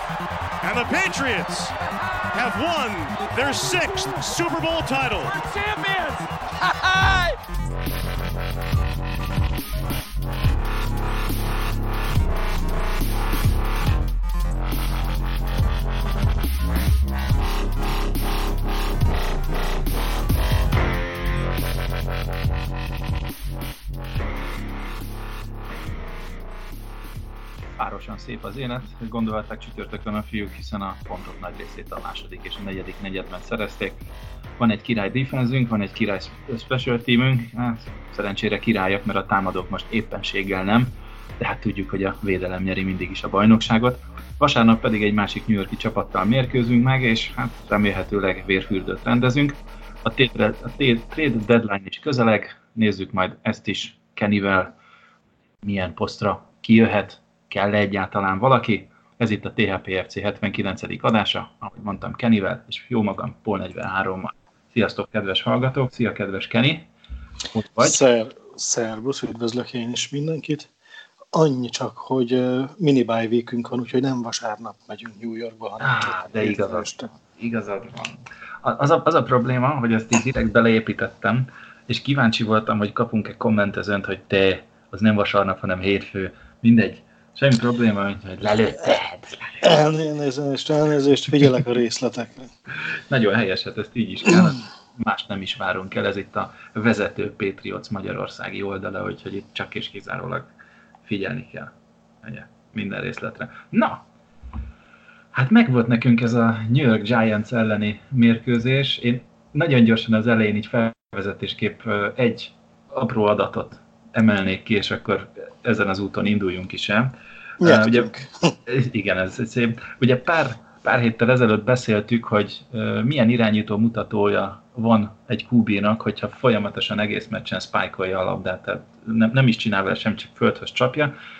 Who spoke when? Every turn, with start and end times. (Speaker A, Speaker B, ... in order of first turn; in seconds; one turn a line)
Speaker A: 0.6-1.7
Speaker A: 2.3-7.4
Speaker B: 27.8-34.0
Speaker B: 34.6-54.7
Speaker B: 55.6-66.9
Speaker B: 67.5-68.0
Speaker C: 67.8-70.7
Speaker C: 71.3-77.1
Speaker B: 75.8-89.7
Speaker C: 89.6-92.5
Speaker B: 93.1-100.5
Speaker B: 101.0-104.0
Speaker B: 105.3-118.1
Speaker C: 117.6-118.5
Speaker B: 118.7-131.1